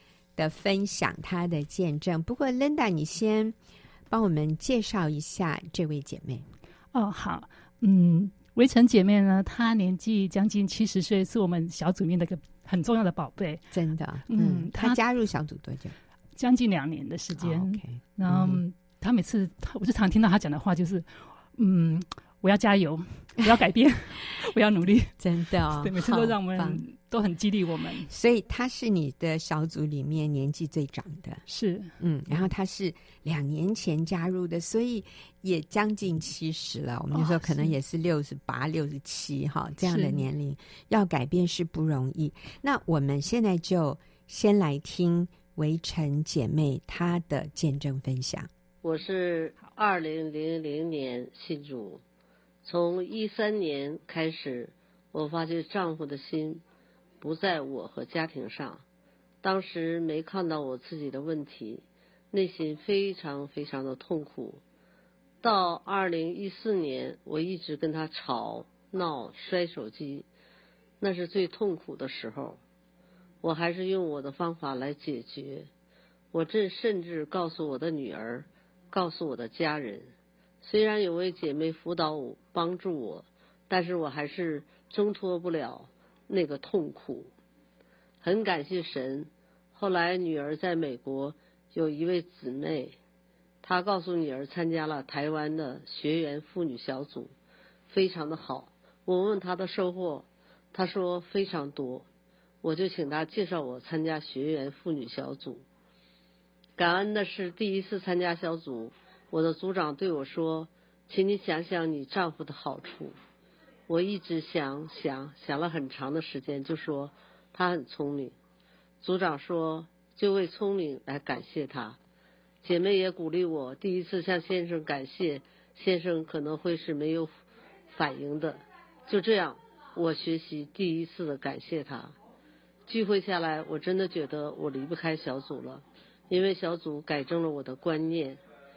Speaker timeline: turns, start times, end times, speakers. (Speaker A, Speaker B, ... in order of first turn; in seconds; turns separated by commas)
Speaker A: 0.4-3.5, Speaker A: 4.1-6.5, Speaker B: 6.9-13.6, Speaker A: 13.7-15.9, Speaker B: 14.3-15.0, Speaker B: 16.4-28.1, Speaker A: 17.4-18.6, Speaker A: 25.2-26.8, Speaker A: 28.1-31.4, Speaker B: 31.5-32.0, Speaker A: 32.0-48.5, Speaker B: 37.1-37.8, Speaker B: 39.9-40.3, Speaker C: 48.8-52.0, Speaker C: 52.6-56.6, Speaker C: 57.2-58.8, Speaker C: 59.4-64.6, Speaker C: 65.4-70.3, Speaker C: 71.0-72.6, Speaker C: 73.4-75.7, Speaker C: 76.3-80.1, Speaker C: 80.6-87.3, Speaker C: 88.2-93.0, Speaker C: 93.6-97.3, Speaker C: 97.9-102.1, Speaker C: 102.6-105.7, Speaker C: 106.8-113.2, Speaker C: 113.9-118.3, Speaker C: 119.0-122.0, Speaker C: 122.6-127.3, Speaker C: 127.9-132.2, Speaker C: 132.9-138.4